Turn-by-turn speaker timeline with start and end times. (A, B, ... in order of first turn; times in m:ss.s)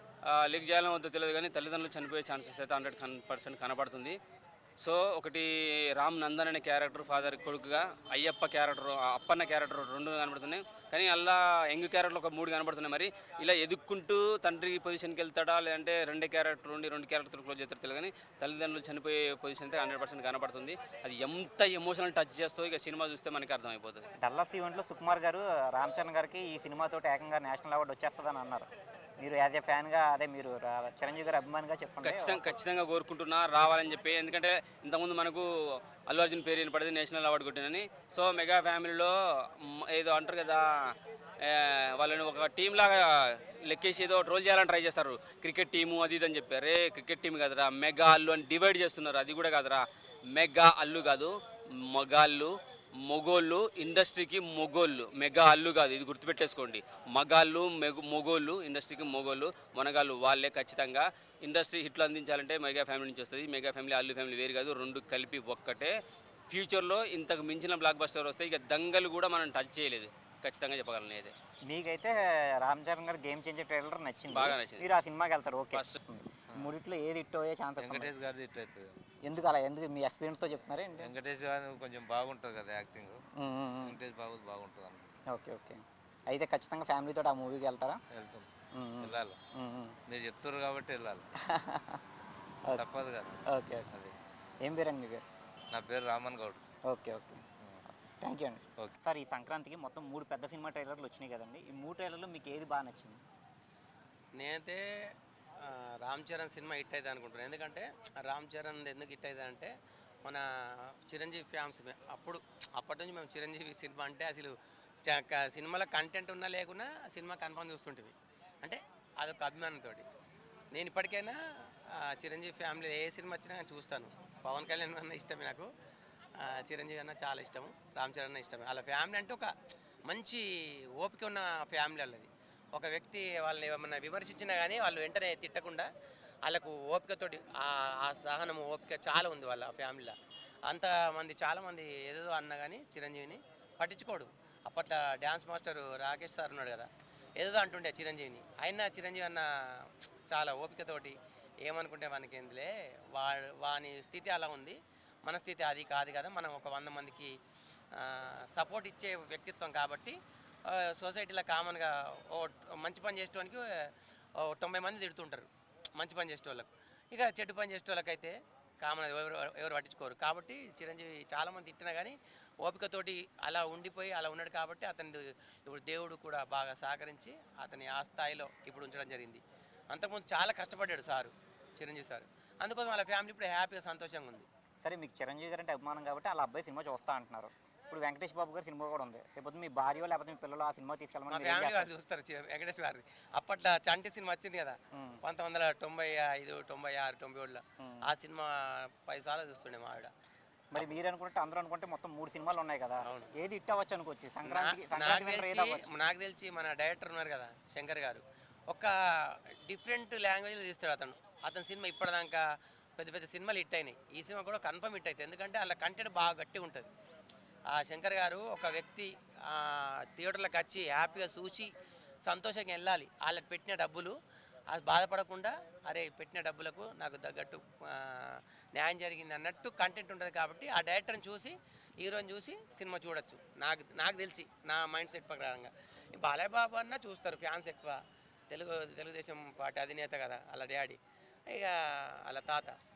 0:00.3-0:04.2 A
0:04.8-0:24.1 A
0:24.2-0:28.7 B
0:29.2-0:32.6 B
0:32.0-0:35.5 A
0:36.1-0:49.8 A
0:50.3-0:51.3 A
0:51.9-0:52.5 A
0:53.1-1:06.0 A
1:06.5-1:11.3 A
1:11.7-1:18.1 B
1:14.3-1:14.8 A
1:17.8-1:19.0 C
1:19.3-1:21.1 B
1:21.0-1:23.2 C
1:23.4-1:24.0 B
1:23.8-1:25.1 C
1:25.3-1:28.0 B
1:28.1-1:28.5 C
1:28.8-1:30.0 B
1:29.0-1:29.4 C
1:30.1-1:31.3 C
1:31.5-1:32.0 B
1:32.8-1:34.2 C
1:33.5-1:33.9 B
1:34.6-1:35.2 B
1:35.7-1:36.6 C
1:36.9-1:37.4 B
1:38.2-1:43.2 B
1:44.4-1:44.8 D
1:45.6-1:49.7 D
1:51.1-2:00.1 D
2:00.7-2:01.4 D
2:02.0-2:05.7 D
2:06.4-2:09.5 D
2:10.1-2:10.4 D
2:11.0-2:15.9 D
2:16.5-2:20.1 D
2:20.7-2:37.3 D
2:38.0-2:40.2 D
2:40.7-2:43.6 D
2:44.4-2:59.4 D
2:59.9-3:04.5 D
3:04.8-3:11.9 B
3:11.3-3:18.5 D
3:14.9-3:15.2 B
3:17.8-3:18.1 B
3:19.1-3:20.1 D
3:20.7-3:25.9 B
3:23.0-3:23.3 D
3:24.4-3:28.9 D
3:29.7-3:32.4 D
3:33.0-3:36.9 D
3:37.7-3:41.7 D
3:42.3-3:44.1 D
3:44.7-3:58.0 D
3:58.5-4:01.0 D
4:01.5-4:02.8 D